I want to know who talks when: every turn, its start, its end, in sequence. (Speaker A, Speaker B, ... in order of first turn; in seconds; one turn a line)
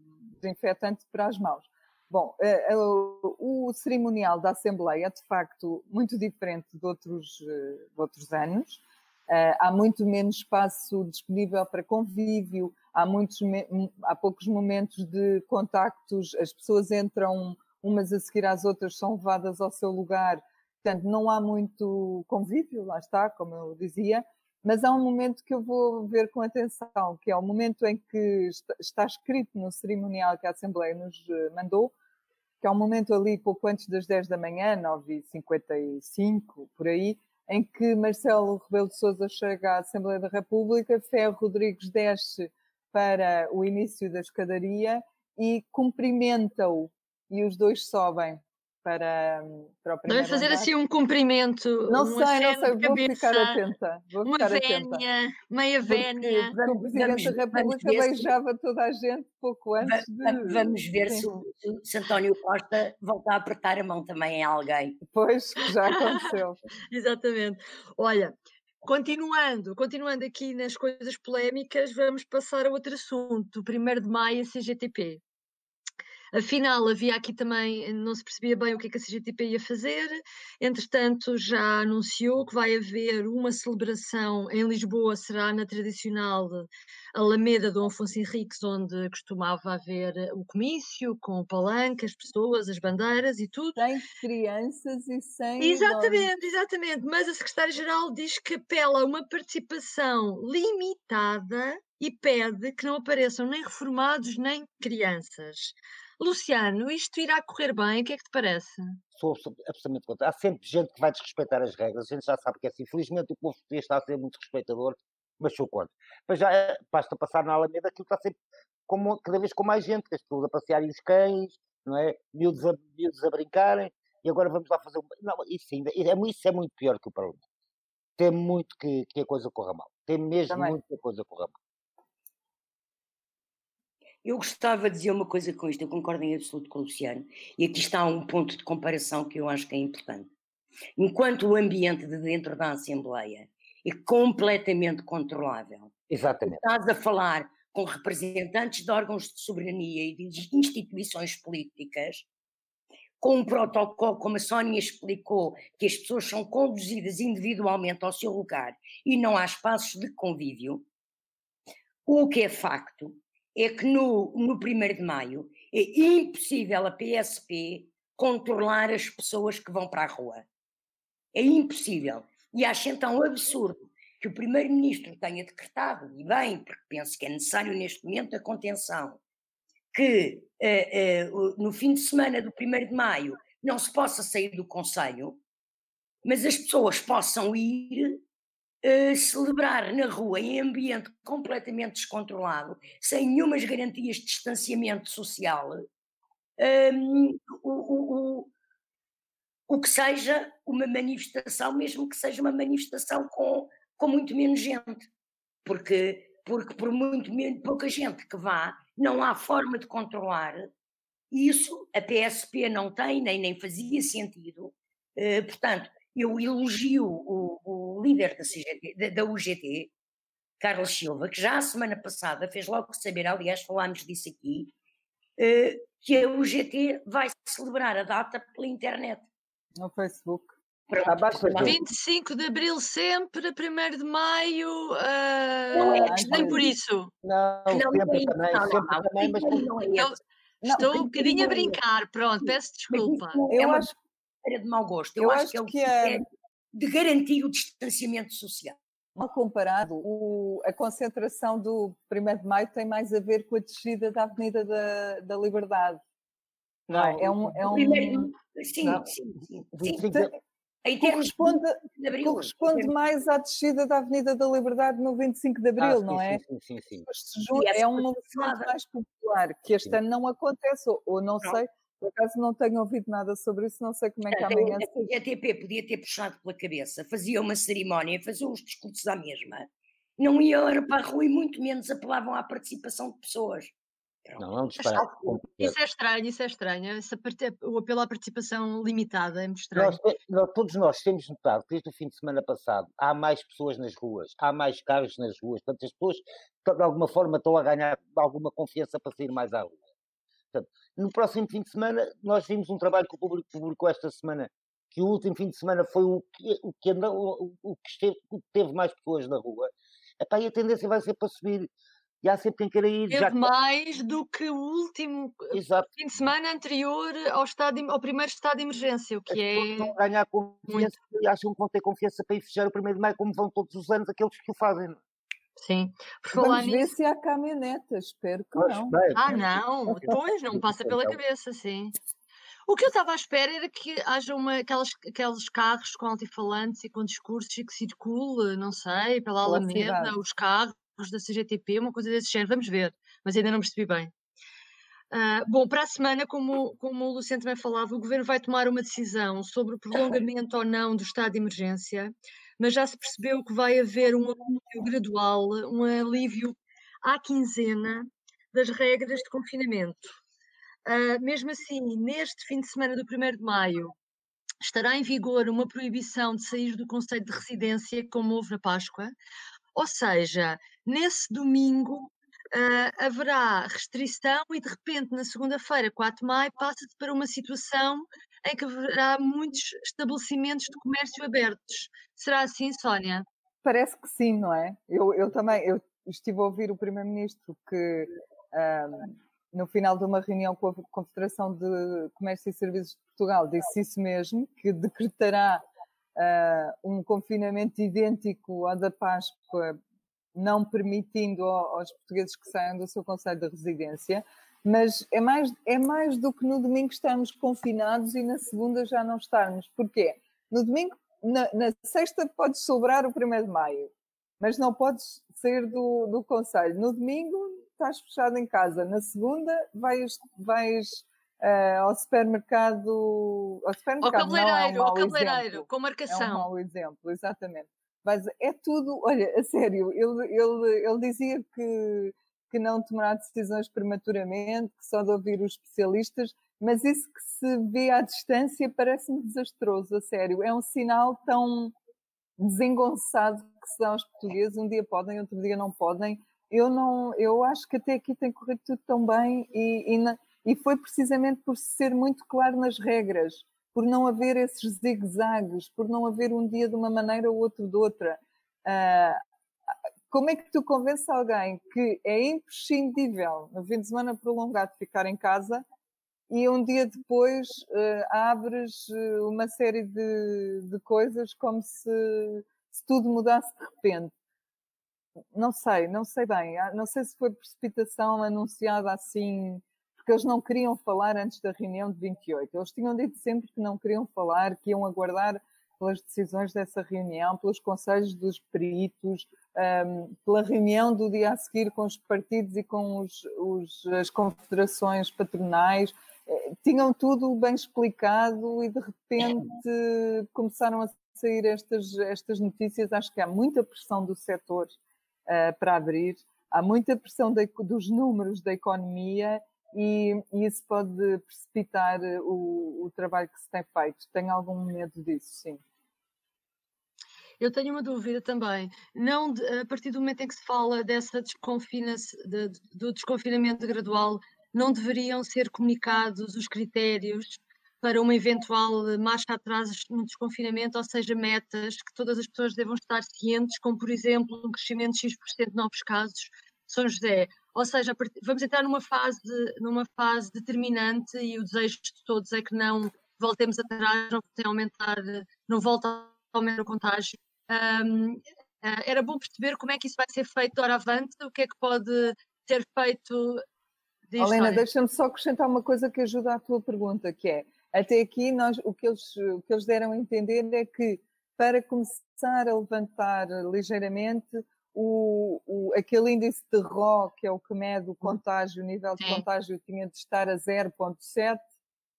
Speaker A: 0.4-31.9
Speaker A: 32.6-50.7
Speaker B: 50.1-53.6
Speaker A: 51.9-55.0
Speaker B: 54.2-56.5
Speaker A: 55.9-61.2
Speaker C: 56.5-58.3
Speaker C: 59.8-65.0
Speaker A: 65.1-66.6
Speaker B: 66.9-75.2
Speaker B: 76.3-93.8
Speaker A: 93.8-96.3
Speaker B: 95.6-109.0
Speaker D: 109.2-118.4
Speaker D: 118.9-127.4
Speaker D: 128.2-131.6
Speaker A: 130.5-130.8
Speaker C: 134.2-140.3
Speaker C: 141.0-145.9
Speaker D: 146.1-146.6
Speaker C: 146.4-152.3
Speaker C: 153.2-160.8
Speaker C: 162.1-170.4
Speaker C: 171.3-179.2
Speaker C: 179.9-185.4
Speaker C: 186.2-188.2
Speaker C: 188.8-195.8
Speaker C: 196.6-198.5
Speaker C: 199.7-205.1
Speaker C: 205.7-210.7
Speaker C: 211.3-219.9
Speaker C: 220.6-224.7
Speaker C: 225.4-229.3
Speaker A: 229.8-230.5
Speaker C: 230.9-231.8
Speaker D: 231.0-231.8
Speaker B: 231.6-237.1
Speaker C: 235.7-236.6
Speaker A: 235.7-236.7
Speaker D: 237.2-239.7
Speaker C: 237.7-240.2
Speaker A: 240.6-241.7
Speaker B: 240.7-243.4
Speaker C: 240.8-241.5
Speaker C: 242.9-248.8
Speaker A: 243.5-243.9
Speaker A: 245.2-246.2
Speaker A: 249.2-256.0
Speaker D: 256.9-257.9
Speaker A: 256.9-258.3
Speaker C: 257.6-260.2
Speaker D: 259.7-260.3
Speaker C: 260.9-262.9
Speaker A: 261.0-266.4
Speaker D: 265.8-267.1
Speaker A: 267.1-274.8
Speaker C: 267.6-268.7
Speaker C: 274.3-279.7
Speaker C: 280.2-283.7
Speaker D: 284.4-285.8
Speaker B: 284.8-290.0
Speaker D: 289.7-299.8
Speaker D: 300.5-311.7
Speaker D: 312.2-313.5
Speaker B: 313.1-320.0
Speaker D: 315.5-315.9
Speaker D: 319.3-325.0
Speaker B: 320.7-320.9
Speaker B: 325.6-326.9
Speaker A: 326.4-329.0
Speaker D: 328.6-331.2
Speaker B: 329.1-331.9
Speaker B: 332.7-344.1
Speaker A: 339.4-340.1
Speaker B: 345.1-360.1
Speaker B: 360.9-363.9
Speaker B: 364.6-369.1
Speaker B: 369.8-383.3
Speaker A: 383.6-399.8
Speaker A: 400.4-441.7
Speaker B: 424.0-426.5
Speaker A: 442.4-459.2
Speaker A: 460.1-465.6
Speaker A: 466.3-474.1
Speaker A: 475.3-504.8
Speaker A: 505.3-515.6
Speaker B: 517.4-553.5
Speaker B: 554.1-554.6
Speaker A: 554.2-571.5
Speaker B: 569.0-569.2